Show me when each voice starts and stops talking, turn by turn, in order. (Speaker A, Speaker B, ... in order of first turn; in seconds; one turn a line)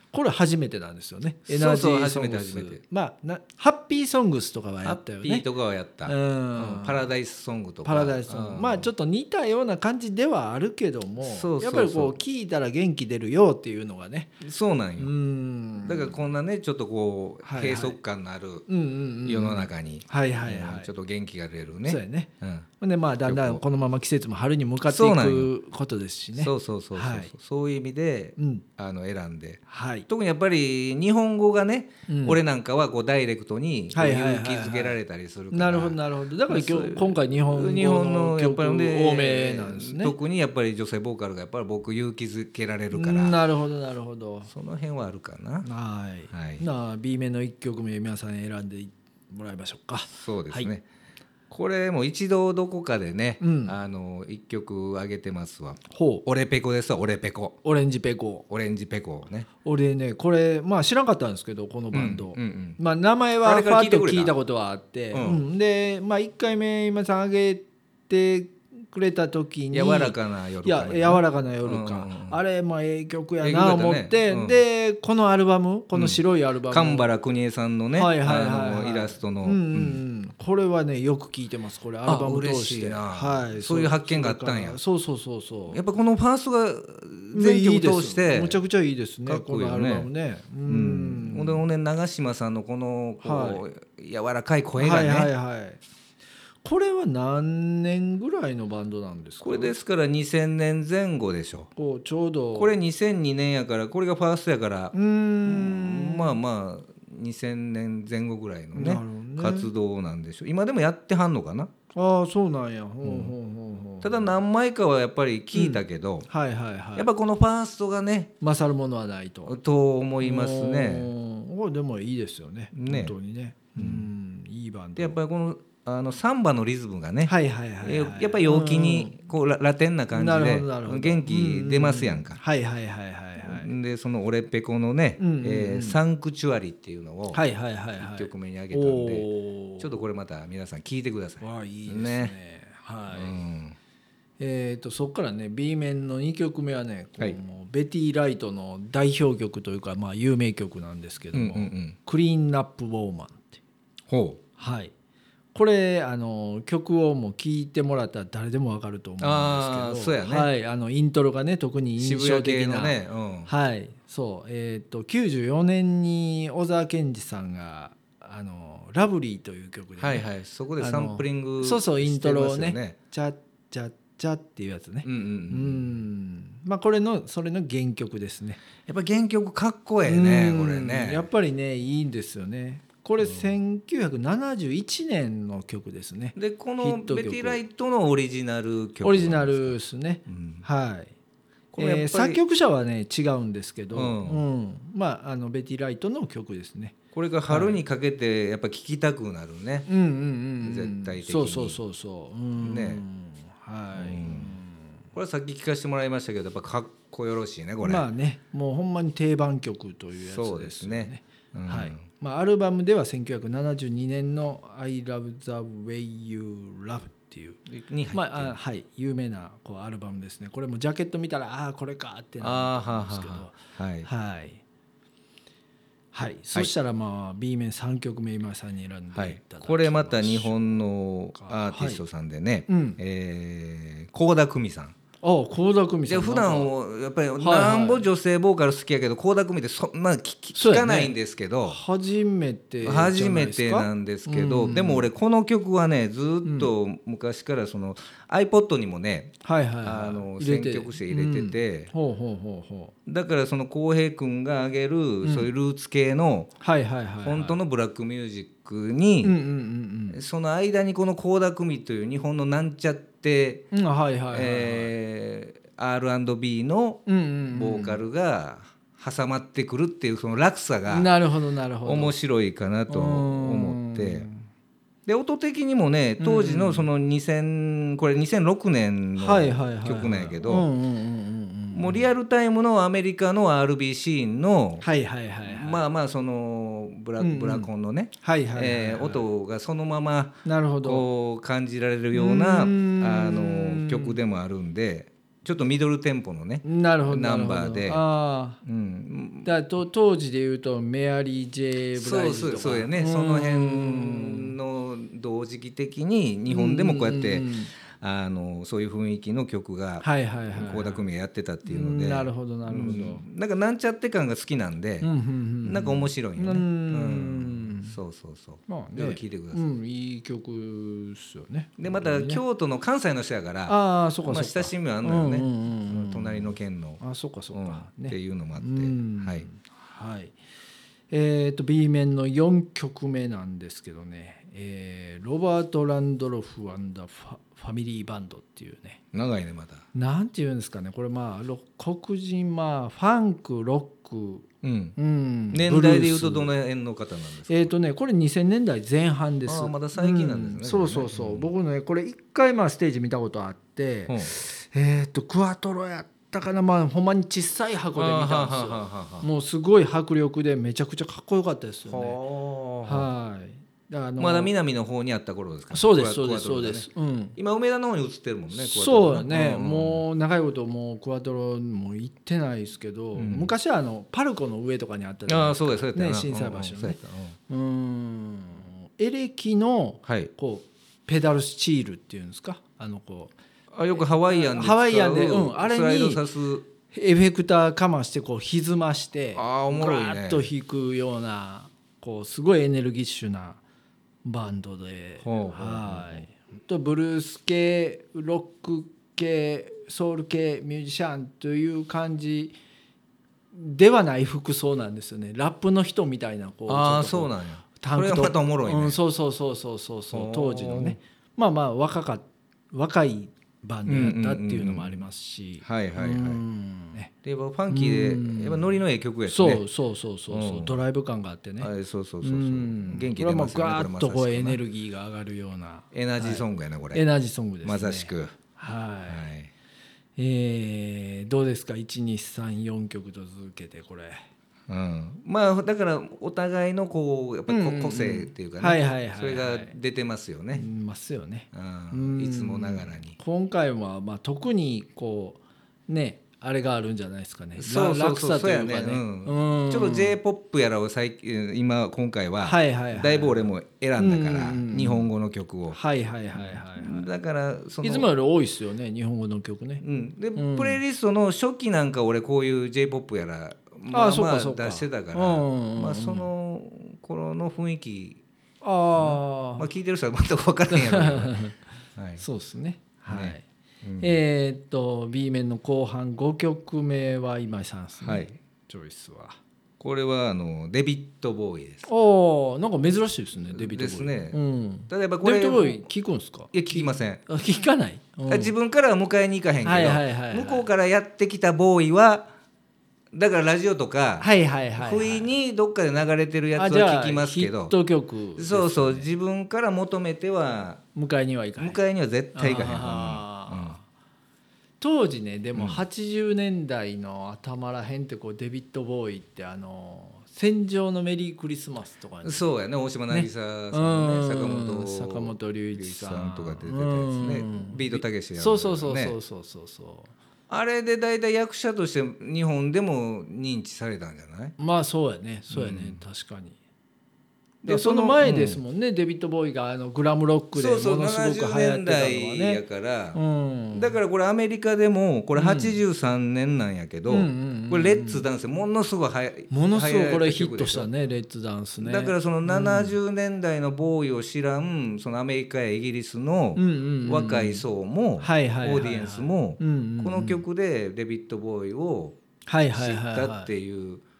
Speaker A: 0.1-5.4
Speaker B: 1.5-2.8
Speaker B: 4.8-8.9
Speaker A: 6.0-7.1
Speaker A: 7.8-14.4
Speaker B: 11.2-12.2
Speaker B: 14.4-15.1
Speaker A: 15.0-16.2
Speaker B: 15.8-18.6
Speaker A: 17.4-18.0
Speaker A: 18.7-20.9
Speaker B: 19.2-22.7
Speaker A: 21.9-27.3
Speaker B: 23.2-23.6
Speaker B: 24.9-25.5
Speaker B: 26.4-43.4
Speaker A: 28.4-28.6
Speaker A: 29.7-30.1
Speaker A: 32.1-32.4
Speaker A: 33.9-35.0
Speaker A: 35.5-40.1
Speaker A: 42.9-44.5
Speaker B: 44.5-45.7
Speaker A: 45.6-50.7
Speaker B: 46.3-46.6
Speaker B: 50.1-50.8
Speaker B: 51.5-57.6
Speaker A: 53.4-53.8
Speaker A: 55.9-56.2
Speaker A: 57.6-58.4
Speaker B: 58.5-59.5
Speaker A: 59.6-77.1
Speaker B: 61.9-62.8
Speaker B: 63.4-64.3
Speaker B: 65.1-65.4
Speaker B: 69.7-72.4
Speaker B: 73.4-74.6
Speaker B: 75.9-80.0
Speaker A: 77.9-85.8
Speaker B: 82.0-84.8
Speaker B: 85.7-88.6
Speaker A: 87.3-91.6
Speaker B: 89.2-90.1
Speaker B: 90.6-95.3
Speaker A: 93.2-93.6
Speaker A: 94.8-95.8
Speaker A: 96.6-99.7
Speaker B: 99.4-101.7
Speaker A: 101.8-102.7
Speaker B: 102.5-111.7
Speaker A: 104.9-106.4
Speaker A: 108.7-109.7
Speaker A: 111.9-114.3
Speaker B: 113.0-113.3
Speaker B: 114.0-116.3
Speaker A: 115.5-117.1
Speaker B: 117.0-118.3
Speaker A: 118.4-119.5
Speaker B: 119.5-121.1
Speaker A: 120.2-125.2
Speaker B: 122.7-123.1
Speaker B: 123.8-124.1
Speaker B: 125.0-132.4
Speaker A: 127.2-129.2
Speaker A: 130.1-133.7
Speaker B: 133.4-137.4
Speaker A: 135.2-136.0
Speaker A: 137.3-139.9
Speaker B: 138.0-139.3
Speaker B: 139.8-142.3
Speaker A: 141.4-143.4
Speaker B: 143.1-143.8
Speaker A: 144.4-153.6
Speaker B: 151.3-151.9
Speaker B: 154.1-154.4
Speaker A: 154.6-154.9
Speaker A: 155.5-162.9
Speaker B: 159.2-160.5
Speaker B: 162.0-163.5
Speaker A: 163.5-170.2
Speaker B: 170.0-172.9
Speaker A: 170.8-178.6
Speaker B: 175.0-175.9
Speaker B: 178.8-181.3
Speaker A: 180.0-187.6
Speaker B: 186.3-189.7
Speaker A: 189.0-191.1
Speaker B: 190.3-190.6
Speaker B: 191.7-192.4
Speaker A: 191.8-196.9
Speaker B: 193.9-194.4
Speaker B: 197.1-199.9
Speaker A: 197.5-197.8
Speaker A: 199.9-205.0
Speaker B: 200.6-201.8
Speaker B: 202.6-203.0
Speaker B: 203.9-204.6
Speaker B: 205.1-208.1
Speaker A: 207.8-217.6
Speaker B: 210.2-212.0
Speaker B: 217.7-218.6
Speaker A: 218.1-224.6
Speaker B: 222.4-224.1
Speaker A: 226.1-230.6
Speaker B: 229.1-234.9
Speaker A: 231.3-232.0
Speaker A: 232.7-233.0
Speaker A: 235.2-236.7
Speaker B: 236.1-241.8
Speaker A: 237.4-238.1
Speaker A: 240.5-241.1
Speaker A: 241.7-245.1
Speaker B: 242.8-251.9
Speaker A: 246.4-246.7
Speaker A: 249.4-252.9
Speaker B: 253.1-256.5
Speaker A: 255.2-255.5
Speaker A: 256.6-257.6
Speaker B: 257.2-259.3
Speaker A: 259.2-260.2
Speaker B: 260.1-263.7
Speaker A: 263.7-264.9
Speaker B: 264.3-271.1
Speaker A: 267.1-268.0
Speaker A: 270.9-272.1
Speaker B: 271.8-274.3
Speaker A: 272.9-274.4
Speaker B: 275.1-280.7
Speaker A: 276.2-276.9
Speaker A: 279.2-282.1
Speaker B: 281.7-284.8
Speaker A: 284.8-285.8
Speaker B: 285.4-298.0
Speaker A: 287.2-287.7
Speaker A: 288.2-289.2
Speaker A: 290.4-291.0
Speaker A: 292.1-294.2
Speaker A: 296.6-298.6
Speaker B: 298.6-299.5
Speaker A: 299.4-304.5
Speaker B: 301.9-315.1
Speaker A: 306.5-307.7
Speaker A: 310.0-311.0
Speaker A: 311.6-313.2
Speaker A: 315.0-318.0
Speaker B: 315.6-319.6
Speaker A: 318.7-322.4
Speaker B: 321.8-327.0
Speaker A: 323.7-330.4
Speaker B: 327.5-329.4
Speaker A: 331.1-339.0
Speaker B: 339.1-339.8
Speaker A: 339.9-346.5
Speaker B: 344.6-344.9
Speaker B: 345.5-347.7
Speaker A: 347.5-362.2
Speaker B: 349.5-351.5
Speaker B: 354.1-354.4
Speaker B: 357.9-359.3
Speaker B: 361.9-363.1
Speaker A: 362.8-364.5
Speaker B: 364.2-370.0
Speaker A: 365.7-367.4
Speaker A: 368.5-383.3
Speaker B: 373.1-373.5
Speaker B: 375.3-377.4
Speaker B: 380.1-380.3
Speaker B: 383.7-386.6
Speaker A: 383.9-386.2
Speaker A: 386.9-393.6
Speaker B: 389.3-390.5
Speaker A: 394.2-402.5
Speaker B: 395.2-396.2
Speaker A: 403.5-417.1
Speaker B: 406.7-409.0
Speaker B: 410.1-411.0
Speaker B: 413.9-415.0
Speaker B: 415.6-416.4
Speaker B: 417.2-419.6
Speaker A: 417.7-421.7
Speaker B: 420.3-420.8
Speaker B: 421.6-424.6
Speaker A: 422.2-429.2
Speaker B: 425.9-427.0
Speaker B: 427.6-428.4
Speaker B: 429.1-429.5
Speaker A: 430.2-434.2
Speaker B: 434.7-440.7
Speaker A: 437.5-439.7
Speaker A: 440.5-450.2
Speaker B: 441.5-443.2
Speaker B: 447.6-455.8
Speaker A: 452.4-455.1
Speaker A: 455.7-457.1
Speaker B: 456.3-458.1
Speaker A: 457.8-459.8
Speaker B: 459.8-468.2
Speaker A: 460.3-460.8
Speaker A: 463.9-466.3
Speaker A: 468.6-469.7
Speaker B: 468.9-471.4
Speaker A: 470.7-471.6
Speaker B: 471.9-472.2
Speaker A: 472.2-473.4
Speaker B: 473.1-474.2
Speaker A: 474.0-479.4
Speaker B: 478.0-478.3
Speaker B: 479.8-481.9
Speaker A: 481.9-488.5
Speaker B: 483.5-484.4
Speaker B: 484.9-485.9
Speaker B: 486.5-487.2
Speaker B: 488.3-492.3
Speaker A: 489.6-490.7
Speaker B: 493.1-497.7
Speaker A: 494.2-495.3
Speaker A: 496.6-499.1
Speaker B: 498.4-500.8
Speaker A: 500.9-501.8
Speaker B: 501.6-503.8
Speaker A: 502.3-503.8
Speaker A: 504.8-512.5
Speaker B: 505.5-505.8
Speaker B: 512.2-519.1
Speaker A: 513.1-520.1
Speaker B: 520.5-524.5
Speaker A: 524.6-526.5
Speaker B: 525.5-526.0
Speaker B: 527.6-528.6
Speaker A: 527.6-532.6
Speaker B: 530.5-533.2
Speaker A: 533.1-533.9
Speaker B: 533.7-540.9
Speaker A: 535.4-535.8
Speaker A: 537.1-538.2
Speaker A: 539.5-543.0
Speaker B: 541.8-552.2
Speaker A: 546.5-547.6
Speaker A: 548.2-550.4
Speaker A: 552.5-553.5
Speaker B: 552.7-554.0